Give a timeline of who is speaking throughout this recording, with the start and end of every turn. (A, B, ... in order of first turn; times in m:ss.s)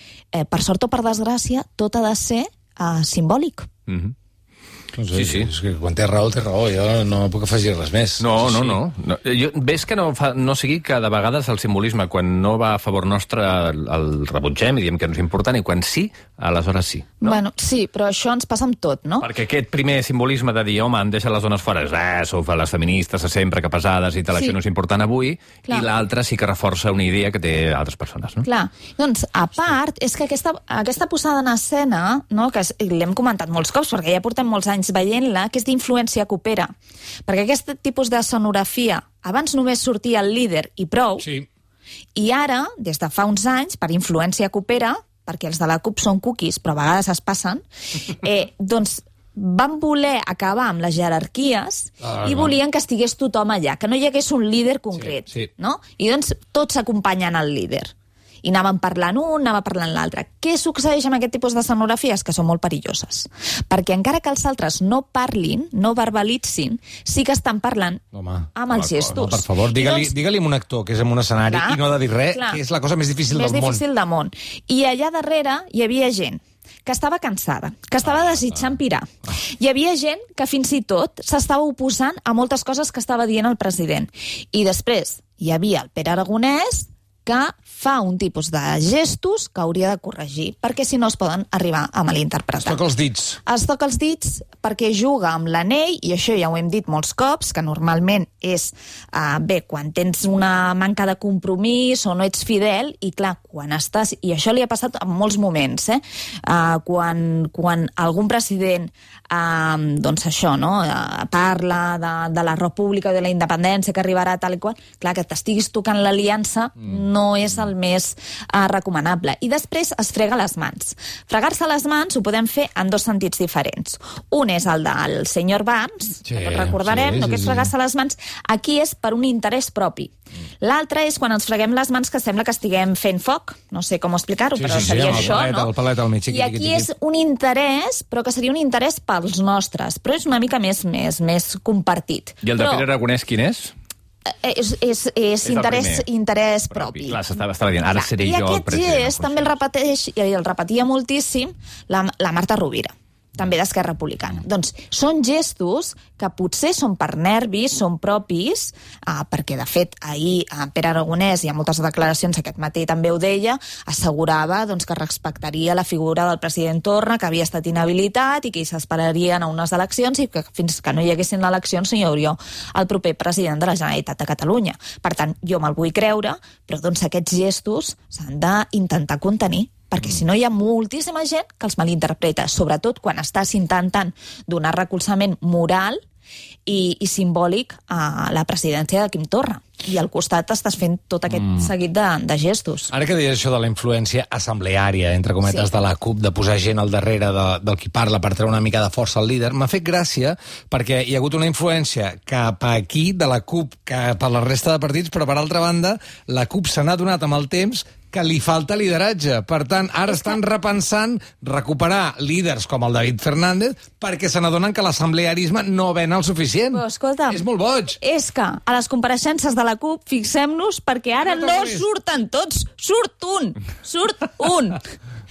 0:00.3-0:03.7 A
0:03.9-0:04.1 B
0:04.9-0:08.8 C
0:05.1-0:05.5 B
0:08.2-0:17.4 B
0:17.2-0:19.3 A
0:19.2-0:28.4 B
0:28.4-0:36.7 A
0:37.3-0:41.2 A
0:41.2-0:41.5 C
0:42.1-0:57.9 A
0:52.0-0:52.5 C
0:55.0-0:55.5 C
0:58.4-1:08.0 A
1:08.1-1:13.8 C
1:08.5-1:10.1 A
1:11.4-1:12.6 A
1:13.3-1:32.8 A
1:32.6-1:33.4 C
1:33.4-2:15.7 A
2:06.2-2:07.7 C
2:14.6-2:16.9 C
2:16.3-2:22.8 A
2:22.4-2:23.7 B
2:24.3-2:27.2 A
2:25.4-2:26.0 B
2:26.7-2:29.5 B
2:27.9-3:06.0 A
3:06.7-3:12.9 A
3:12.9-3:38.0 C
3:36.7-3:37.4 A
3:38.0-3:44.8 A
3:41.2-3:41.8 C